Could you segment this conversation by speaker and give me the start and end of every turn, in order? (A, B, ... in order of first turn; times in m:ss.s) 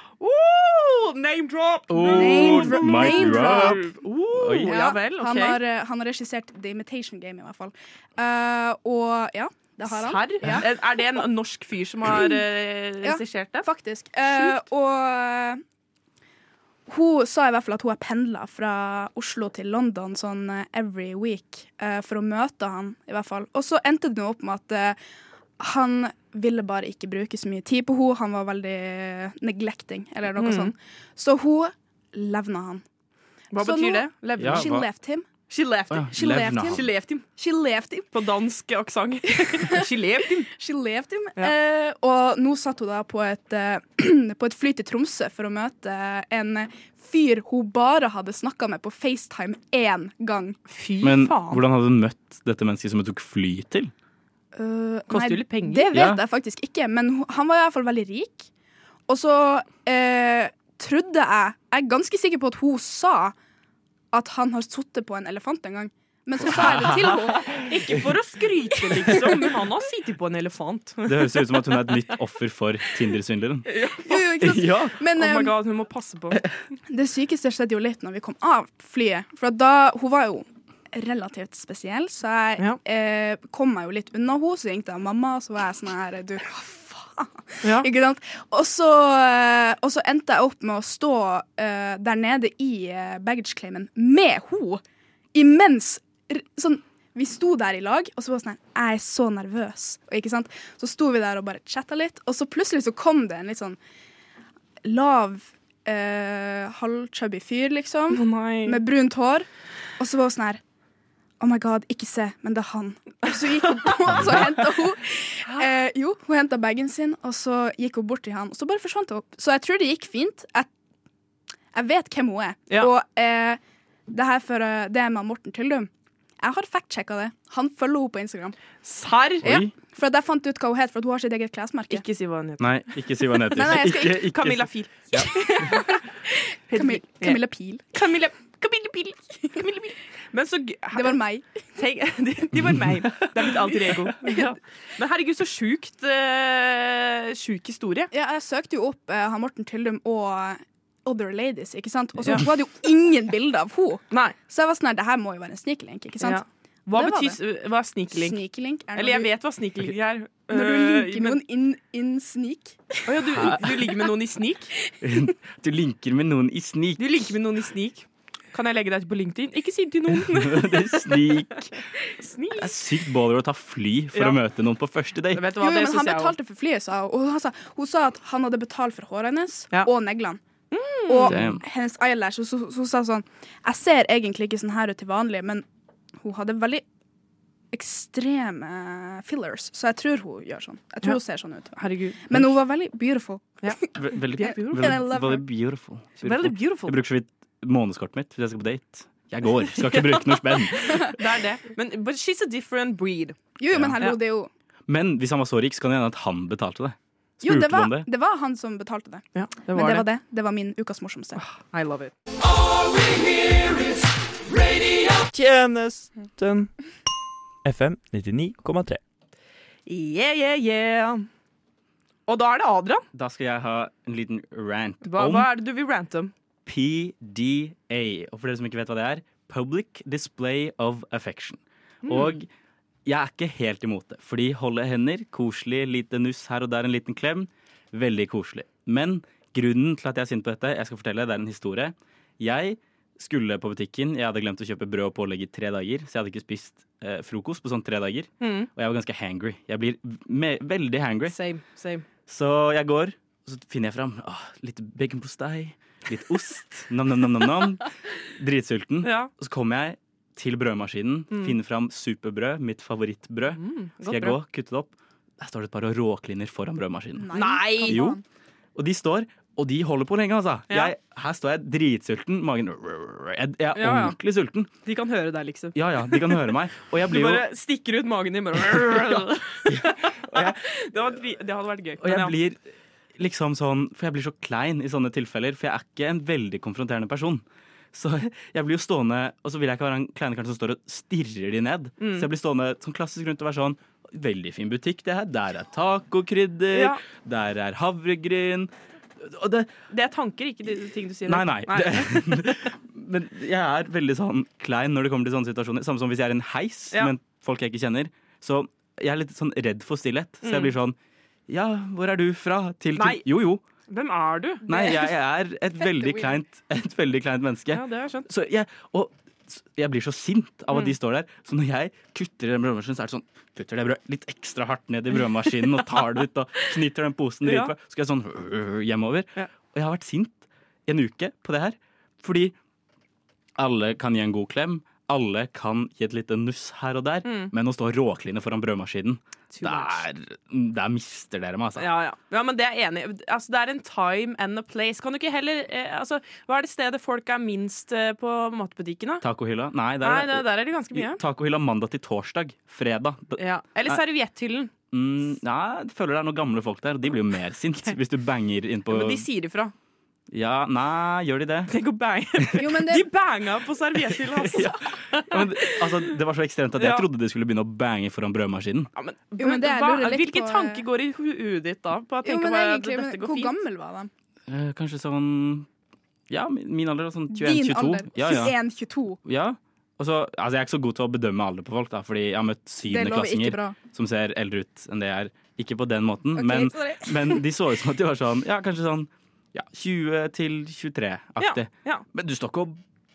0:00.2-0:05.6 A
0:01.9-0:04.8 B
0:02.0-0:03.9 C
0:04.6-0:10.7 C
0:09.9-0:13.7 A
0:13.0-0:15.6 C
0:14.2-0:14.6 A
0:16.9-0:25.0 C
0:25.6-0:32.8 C
0:30.3-0:30.7 A
0:33.5-0:34.7 A
0:33.5-0:35.2 C
0:34.4-0:34.9 B
0:35.5-0:36.1 A
0:35.9-0:36.8 B
0:36.1-0:38.1 C
0:36.7-0:37.2 A
0:38.1-0:40.5 A
0:40.5-0:50.6 C
0:50.7-0:51.6 A
0:51.0-0:53.9 B
0:54.5-0:58.5 C
0:55.1-0:55.9 A
0:55.9-0:56.2 B
0:59.1-1:03.3 C
1:04.1-1:07.7 C
1:06.4-1:07.3 B
1:06.4-1:11.8 A
1:11.0-1:13.7 B
1:13.7-1:14.2 A
1:14.0-1:15.5 C
1:14.4-1:15.0 B
1:15.1-1:16.4 A
1:16.9-1:34.8 C
1:27.6-1:27.9 A
1:35.3-1:43.8 C
1:44.8-1:49.5 C
1:48.1-1:48.8 A
1:50.0-1:50.6 C
1:51.4-2:00.7 C
2:01.7-2:05.9 C
2:06.4-2:08.6 C
2:08.8-2:09.5 A
2:09.4-2:09.7 B
2:09.4-2:12.0 C
2:11.9-2:12.7 A
2:12.6-2:15.3 B
2:13.5-2:14.3 C
2:13.8-2:16.0 A
2:15.1-2:17.8 C
2:16.7-2:17.4 A
2:17.9-2:21.2 A
2:20.9-2:21.4 C
2:21.7-2:28.1 A
2:22.7-2:23.2 B
2:24.2-2:24.5 C
2:28.1-2:36.4 C
2:34.1-2:34.4 A
2:36.2-2:38.4 A
2:36.9-2:37.4 C
2:38.1-2:39.3 C
2:38.9-2:41.4 A
2:40.5-2:43.6 C
2:43.0-2:44.7 A
2:45.0-2:47.3 B
2:47.0-2:51.3 A
2:50.1-2:51.7 B
2:52.2-2:52.8 A
2:52.6-2:55.5 B
2:54.1-2:54.4 A
2:55.3-2:56.3 A
2:55.5-3:00.4 C
3:00.7-3:01.4 A
3:01.1-3:05.6 C
3:01.2-3:01.6 B
3:06.2-3:06.8 C
3:07.7-3:13.9 C
3:11.8-3:12.4 A
3:13.9-3:21.1 B
3:14.3-3:15.0 A
3:14.5-3:15.4 C
3:16.2-3:17.0 A
3:19.8-3:23.4 A
3:23.6-3:24.5 C
3:23.7-3:24.0 B
3:24.9-3:28.1 B
3:27.4-3:31.4 C
3:29.3-3:30.1 A
3:31.4-3:32.1 A
3:35.3-3:36.7 D
3:37.6-3:39.0 D
3:39.9-3:41.3 A
3:42.3-3:43.0 A
3:43.1-3:45.5 B
3:45.0-3:46.3 A
3:46.6-3:52.5 B
3:52.0-3:52.4 A
3:53.0-4:11.4 B
4:08.4-4:08.7 A
4:11.3-4:12.0 A
4:12.3-4:28.2 B
4:19.0-4:19.3 A
4:21.3-4:21.6 A
4:23.5-4:24.4 A
4:27.2-4:28.2 C
4:27.3-4:28.0 A
4:28.7-4:34.7 B
4:30.7-4:30.9 A
4:33.7-4:34.2 A
4:34.8-4:42.4 A
4:35.7-4:37.4 B
4:39.7-4:40.6 B
4:42.0-4:42.6 B
4:43.2-4:59.7 B
4:52.0-4:52.3 A
4:56.7-4:57.0 A
4:59.9-5:02.7 A
5:01.2-5:11.0 B
5:10.4-5:10.7 A
5:11.5-5:13.6 B
5:13.0-5:13.2 A
5:13.9-5:15.1 A
5:14.7-5:32.5 B
5:17.7-5:18.3 A
5:27.4-5:27.7 A
5:33.6-5:41.9 B
5:37.2-5:37.5 A
5:39.5-5:40.0 A
5:41.8-5:49.2 A
5:49.2-5:54.0 B
5:50.0-5:51.2 A
5:53.4-5:54.7 A
5:54.9-5:59.2 B
5:58.9-5:59.7 A
6:00.3-6:01.7 B
6:01.7-6:06.1 A
6:02.6-6:03.1 C
6:04.1-6:08.9 B
6:06.8-6:07.0 A
6:08.9-6:13.6 A
6:09.4-6:10.8 C
6:12.2-6:14.1 C
6:14.5-6:15.7 B
6:16.3-6:18.5 B
6:17.3-6:19.2 C
6:19.2-6:32.8 B
6:22.9-6:23.8 C
6:26.3-6:27.4 C
6:31.4-6:32.0 A